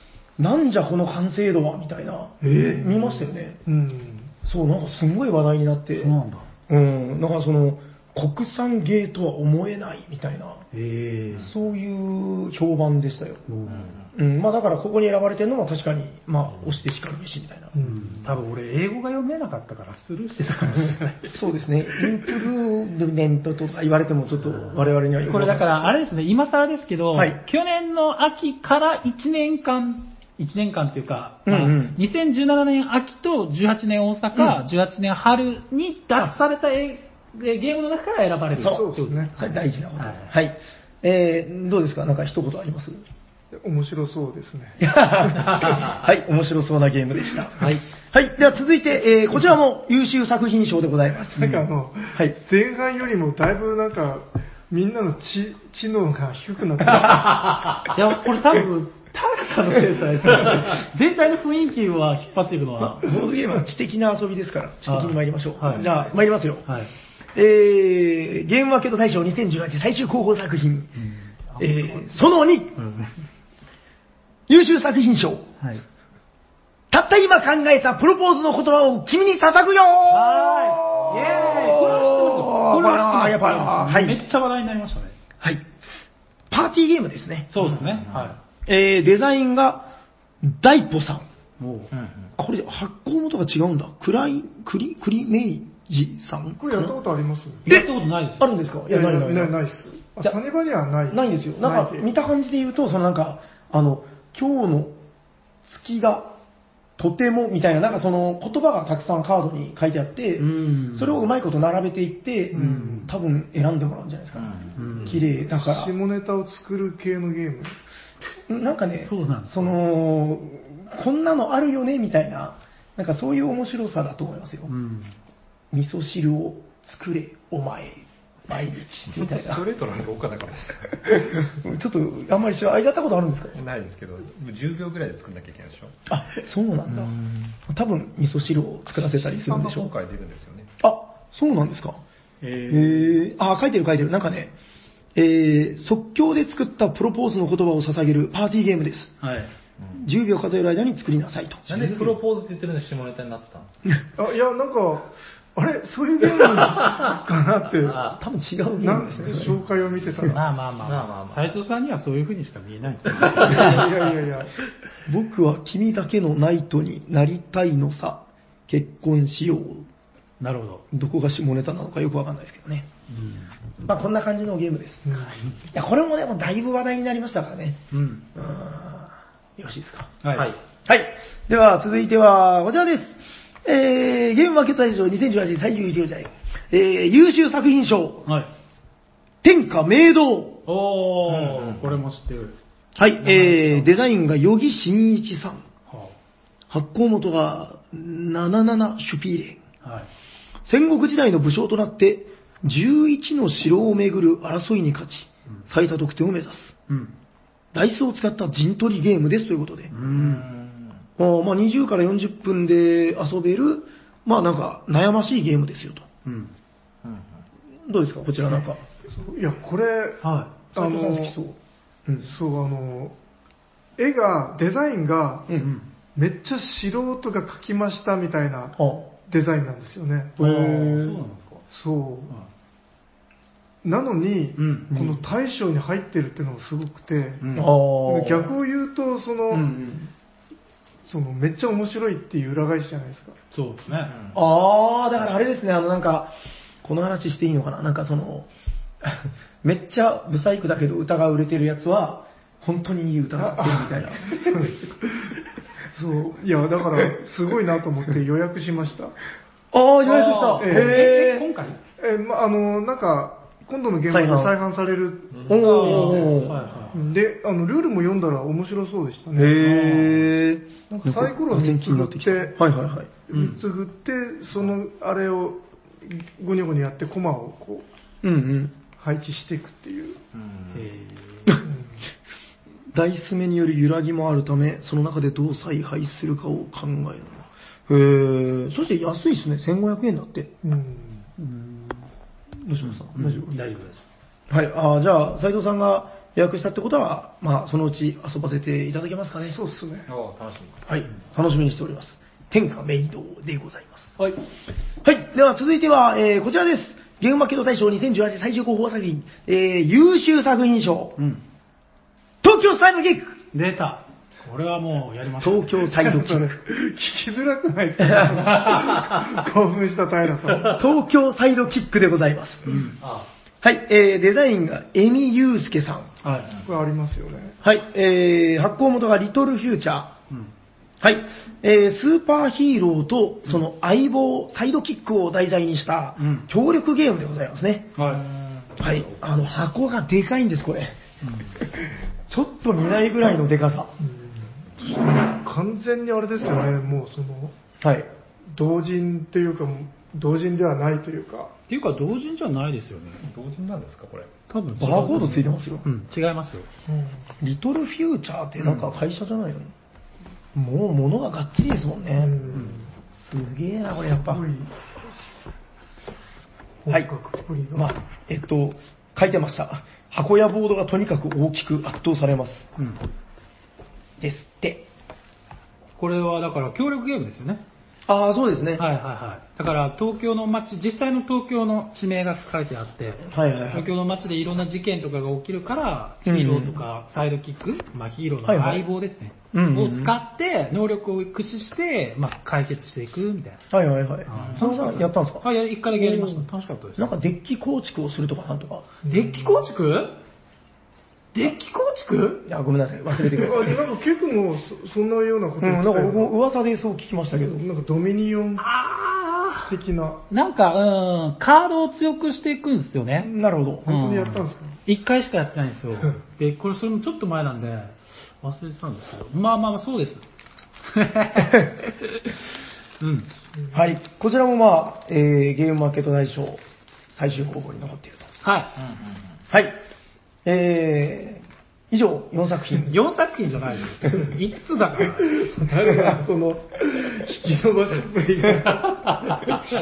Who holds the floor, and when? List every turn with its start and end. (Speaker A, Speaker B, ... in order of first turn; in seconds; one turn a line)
Speaker A: 0.4-3.6
Speaker B: 2.4-3.0
Speaker C: 3.6-4.3
Speaker A: 4.4-6.1
Speaker B: 6.0-6.5
Speaker A: 6.7-10.6
Speaker B: 10.7-11.5
Speaker A: 11.4-13.4
Speaker B: 13.5-13.9
Speaker D: 13.7-14.1
Speaker A: 14.1-17.7
Speaker C: 17.8-18.1
Speaker B: 17.8-21.4
Speaker A: 20.6-25.9
Speaker B: 24.7-40.3
Speaker A: 27.1-27.4
Speaker A: 31.4-32.0
Speaker A: 38.5-43.0
Speaker C: 38.6-39.4
Speaker C: 43.5-45.0
Speaker A: 44.8-52.4
Speaker B: 47.6-47.8
Speaker C: 51.4-57.6
Speaker B: 57.9-63.1
Speaker A: 62.8-66.7
Speaker B: 64.8-65.9
Speaker B: 66.7-66.9
Speaker A: 67.3-70.9
Speaker B: 71.0-72.0
Speaker A: 71.6-72.8
Speaker B: 72.8-73.1
Speaker A: 74.5-75.5
Speaker A: 76.9-84.2
Speaker B: 80.1-85.1
Speaker A: 85.4-85.7
Speaker A: 86.5-87.5
Speaker B: 87.5-88.3
Speaker D: 87.6-88.3
Speaker A: 88.7-89.9
Speaker A: 90.4-91.3
Speaker B: 91.6-91.9
Speaker D: 91.9-92.3
Speaker A: 92.4-97.0
Speaker C: 96.6-97.7
Speaker B: 97.7-98.5
Speaker A: 97.7-99.6
Speaker C: 98.9-102.1
Speaker A: 101.1-105.0
Speaker A: 105.6-106.3
Speaker A: 107.0-115.9
Speaker B: 110.4-111.2
Speaker C: 112.5-113.1
Speaker B: 112.5-113.1
Speaker D: 114.3-115.2
Speaker B: 114.8-115.2
Speaker C: 115.4-117.7
Speaker A: 118.5-124.7
Speaker B: 119.0-119.8
Speaker B: 124.7-125.2
Speaker A: 125.7-129.6
Speaker E: 129.1-131.4
Speaker A: 131.1-133.6
Speaker E: 133.5-135.9
Speaker A: 136.1-139.9
Speaker D: 137.1-137.4
Speaker E: 138.9-140.7
Speaker A: 140.8-142.0
Speaker B: 142.4-143.2
Speaker A: 142.7-144.5
Speaker A: 145.1-149.1
Speaker B: 149.2-149.5
Speaker A: 149.9-152.1
Speaker D: 151.7-154.0
Speaker C: 154.2-158.1
Speaker D: 156.8-157.1
Speaker A: 158.1-159.6
Speaker C: 158.8-160.4
Speaker B: 160.2-163.9
Speaker D: 160.8-161.5
Speaker D: 163.2-163.7
Speaker C: 163.4-164.5
Speaker A: 165.0-169.9
Speaker B: 170.4-170.8
Speaker A: 170.9-172.9
Speaker B: 173.1-173.5
Speaker A: 173.8-180.2
Speaker C: 175.1-175.4
Speaker B: 175.2-175.6
Speaker B: 177.9-178.2
Speaker B: 180.2-180.5
Speaker A: 180.8-188.3
Speaker A: 189.4-190.6
Speaker B: 190.7-192.5
Speaker D: 191.3-191.9
Speaker A: 192.9-195.6
Speaker B: 193.2-193.9
Speaker B: 195.9-196.1
Speaker A: 196.7-199.6
Speaker B: 199.8-200.1
Speaker A: 200.6-206.7
Speaker B: 206.9-207.1
Speaker A: 207.7-209.9
Speaker B: 209.9-210.4
Speaker D: 210.0-211.0
Speaker A: 211.2-216.1
Speaker B: 216.2-216.5
Speaker D: 217.0-217.4
Speaker A: 217.8-218.8
Speaker C: 219.1-220.2
Speaker B: 220.2-220.5
Speaker C: 220.7-221.3
Speaker A: 220.7-222.3
Speaker C: 222.2-223.2
Speaker C: 224.0-225.5
Speaker B: 225.6-225.9
Speaker C: 226.1-231.0
Speaker A: 228.8-229.1
Speaker A: 230.4-231.2
Speaker B: 230.4-231.6
Speaker C: 231.7-232.3
Speaker C: 233.8-237.5
Speaker B: 234.6-234.9
Speaker A: 234.9-235.2
Speaker B: 237.4-237.8
Speaker A: 237.5-238.5
Speaker C: 238.0-239.7
Speaker A: 239.5-240.1
Speaker C: 241.1-243.4
Speaker B: 243.5-244.1
Speaker D: 244.0-244.4
Speaker A: 244.3-248.5
Speaker A: 249.0-254.8
Speaker C: 253.4-254.8
Speaker C: 255.9-259.1
Speaker A: 259.7-261.5
Speaker B: 260.0-261.8
Speaker C: 260.6-261.0
Speaker C: 262.0-266.3
Speaker A: 264.1-264.5
Speaker E: 265.3-266.5
Speaker A: 265.5-266.6
Speaker B: 265.6-267.1
Speaker C: 266.9-269.6
Speaker A: 269.3-273.1
Speaker B: 269.6-270.3
Speaker C: 270.9-272.6
Speaker C: 273.3-277.9
Speaker B: 273.3-273.6
Speaker A: 278.2-278.8
Speaker C: 279.0-280.2
Speaker D: 280.3-280.9
Speaker B: 280.7-281.6
Speaker C: 281.6-282.0
Speaker A: 282.9-290.5
Speaker C: 290.6-291.2
Speaker B: 291.4-292.1
Speaker A: 292.6-293.5
Speaker B: 292.8-294.0
Speaker A: 294.5-299.6
Speaker C: 299.4-300.1
Speaker D: 300.1-300.8
Speaker A: 300.9-304.2
Speaker A: 305.0-311.2
Speaker A: 312.4-313.4
Speaker B: 313.5-316.1
Speaker A: 315.4-316.6
Speaker C: 316.0-320.8
Speaker A: 320.7-322.7
Speaker B: 322.6-323.0
Speaker D: 323.0-323.3
Speaker A: 323.6-326.1
Speaker B: 326.2-326.5
Speaker C: 326.6-327.6
Speaker A: 327.6-330.1
Speaker A: 331.0-337.9
Speaker B: 336.2-336.5
Speaker B: 337.9-338.2
Speaker D: 338.0-338.8
Speaker A: 338.8-340.9
Speaker B: 341.2-341.5
Speaker A: 341.6-343.9
Speaker C: 344.0-347.5
Speaker A: 347.8-348.1
Speaker C: 348.5-351.5
Speaker B: 351.7-353.2
Speaker E: 353.2-354.3
Speaker B: 354.5-356.7
Speaker A: 354.8-355.9
Speaker C: 356.9-357.2
Speaker A: 357.4-359.7
Speaker B: 358.6-358.9
Speaker A: 360.5-362.4
Speaker C: 362.2-362.9
Speaker A: 363.1-364.4
Speaker C: 364.2-364.7
Speaker C: 366.8-367.9
Speaker A: 367.7-372.7
Speaker A: 374.2-374.9
Speaker B: 376.0-377.6
Speaker A: 378.1-378.8
Speaker B: 378.8-393.6
Speaker A: 383.2-383.9
Speaker A: 386.2-386.8
Speaker A: 388.4-388.9
Speaker A: 389.5-390.1
Speaker A: 393.7-398.9
Speaker B: 394.2-397.2
Speaker D: 394.3-394.6
Speaker C: 399.1-399.7
Speaker B: 399.1-400.2
Speaker B: 401.3-402.4
Speaker A: 402.4-403.8
Speaker C: 403.3-406.3
Speaker A: 405.6-407.6
Speaker C: 407.5-408.6
Speaker B: 408.6-409.7
Speaker C: 409.7-410.2
Speaker B: 410.3-413.3
Speaker A: 413.2-413.9
Speaker C: 413.9-414.8
Speaker B: 413.9-420.2
Speaker B: 420.8-421.7
Speaker B: 423.0-423.3
Speaker A: 423.7-428.3
Speaker B: 428.4-428.7
Speaker D: 428.7-429.3
Speaker A: 429.5-429.8
Speaker A: 430.4-432.9
Speaker B: 432.9-435.4
Speaker C: 435.3-439.5